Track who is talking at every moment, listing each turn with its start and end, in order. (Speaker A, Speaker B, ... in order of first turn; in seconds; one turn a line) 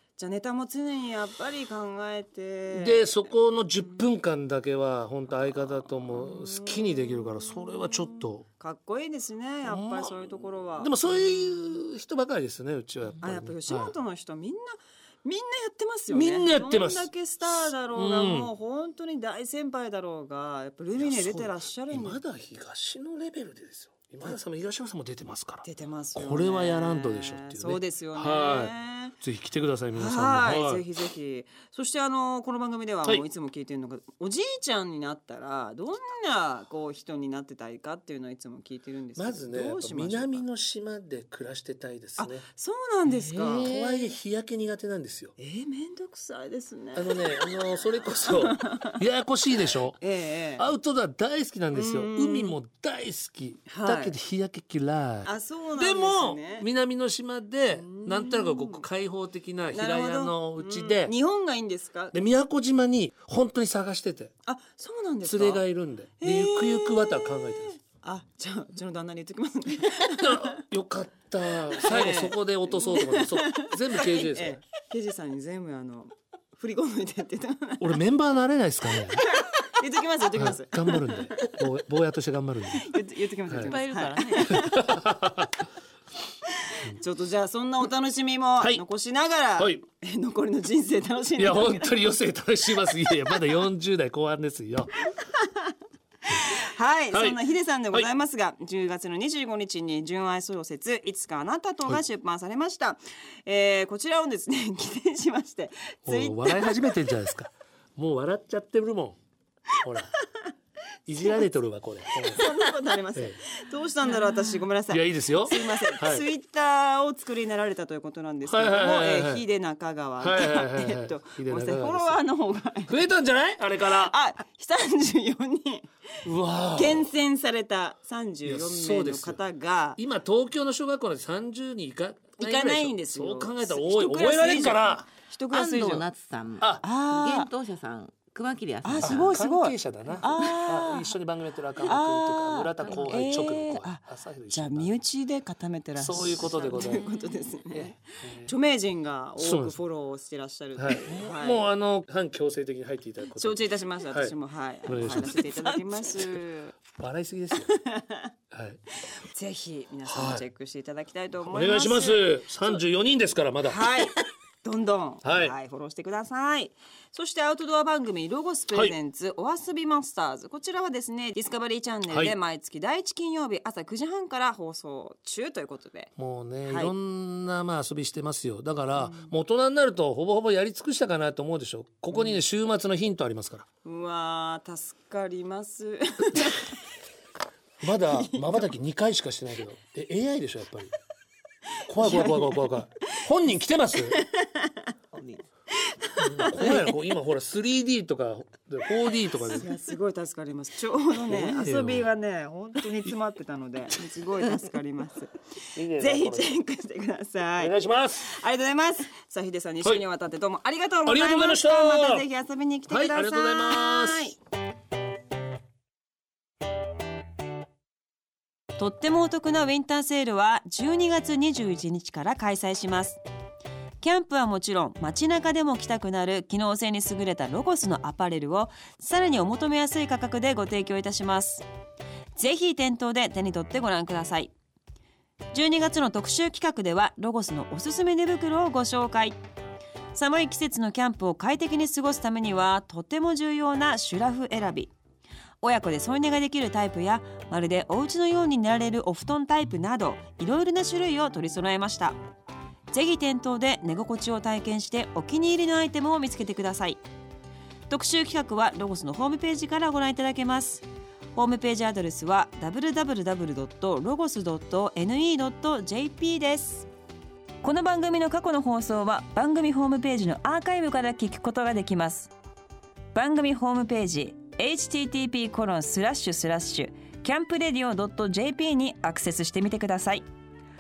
Speaker A: 0.2-3.2
Speaker B: 2.7-8.5
Speaker A: 6.1-7.9
Speaker A: 8.6-10.9
Speaker B: 9.7-13.9
Speaker A: 13.2-22.2
Speaker B: 16.1-18.5
Speaker B: 21.0-30.9
Speaker A: 25.6-29.1
Speaker A: 29.9-40.5
Speaker B: 39.2-42.5
Speaker A: 42.2-44.1
Speaker B: 43.1-45.3
Speaker A: 45.4-49.0
Speaker B: 47.0-50.0
Speaker A: 50.0-50.7
Speaker B: 50.6-61.1
Speaker A: 51.7-52.5
Speaker A: 53.7-54.1
Speaker A: 55.2-56.7
Speaker A: 57.8-58.9
Speaker A: 59.7-62.1
Speaker B: 62.1-64.3
Speaker A: 64.5-65.6
Speaker B: 65.2-67.8
Speaker A: 66.2-70.6
Speaker B: 70.0-74.6
Speaker A: 71.7-78.0
Speaker B: 77.8-79.3
Speaker A: 79.3-81.6
Speaker B: 80.4-83.0
Speaker A: 82.8-84.9
Speaker B: 83.5-83.8
Speaker C: 83.6-84.7
Speaker B: 84.5-85.6
Speaker A: 86.6-92.1
Speaker B: 89.6-89.8
Speaker B: 91.4-95.1
Speaker A: 92.8-93.4
Speaker A: 96.3-107.0
Speaker B: 97.1-97.4
Speaker B: 106.1-109.2
Speaker B: 109.8-110.2
Speaker B: 111.1-112.5
Speaker A: 112.2-123.0
Speaker B: 114.9-116.3
Speaker B: 118.5-119.4
Speaker B: 120.2-122.2
Speaker B: 122.9-124.1
Speaker A: 123.9-125.9
Speaker B: 126.2-127.1
Speaker A: 126.8-130.0
Speaker B: 128.4-129.4
Speaker B: 130.0-135.1
Speaker A: 132.4-136.1
Speaker C: 135.5-139.4
Speaker B: 136.6-136.9
Speaker A: 136.8-137.5
Speaker A: 138.8-141.1
Speaker B: 138.9-145.0
Speaker A: 141.9-151.6
Speaker B: 146.0-147.1
Speaker B: 147.7-148.5
Speaker B: 149.4-149.8
Speaker B: 150.8-154.3
Speaker A: 153.3-156.8
Speaker B: 154.9-155.9
Speaker B: 156.9-157.7
Speaker A: 157.7-158.3
Speaker B: 158.5-158.8
Speaker A: 159.0-162.8
Speaker B: 160.1-160.4
Speaker B: 161.4-164.0
Speaker A: 163.6-176.1
Speaker B: 165.2-165.5
Speaker B: 176.2-183.7
Speaker A: 176.7-176.9
Speaker A: 179.0-179.3
Speaker A: 182.1-182.4
Speaker A: 183.8-186.7
Speaker B: 187.8-190.9
Speaker A: 188.1-188.6
Speaker B: 191.9-194.2
Speaker A: 192.0-192.7
Speaker A: 194.2-194.9
Speaker C: 195.1-195.4
Speaker A: 195.8-197.0
Speaker B: 196.2-199.7
Speaker A: 199.5-214.4
Speaker B: 201.3-202.1
Speaker B: 205.8-206.6
Speaker B: 207.6-208.4
Speaker B: 211.1-212.2
Speaker B: 212.9-214.3
Speaker A: 218.8-223.2
Speaker A: 224.0-231.7
Speaker A: 232.4-234.5
Speaker A: 235.5-239.4
Speaker A: 240.1-244.9
Speaker A: 245.6-252.2
Speaker A: 252.9-257.0
Speaker A: 257.9-266.9
Speaker A: 267.6-272.3
Speaker A: 273.1-280.3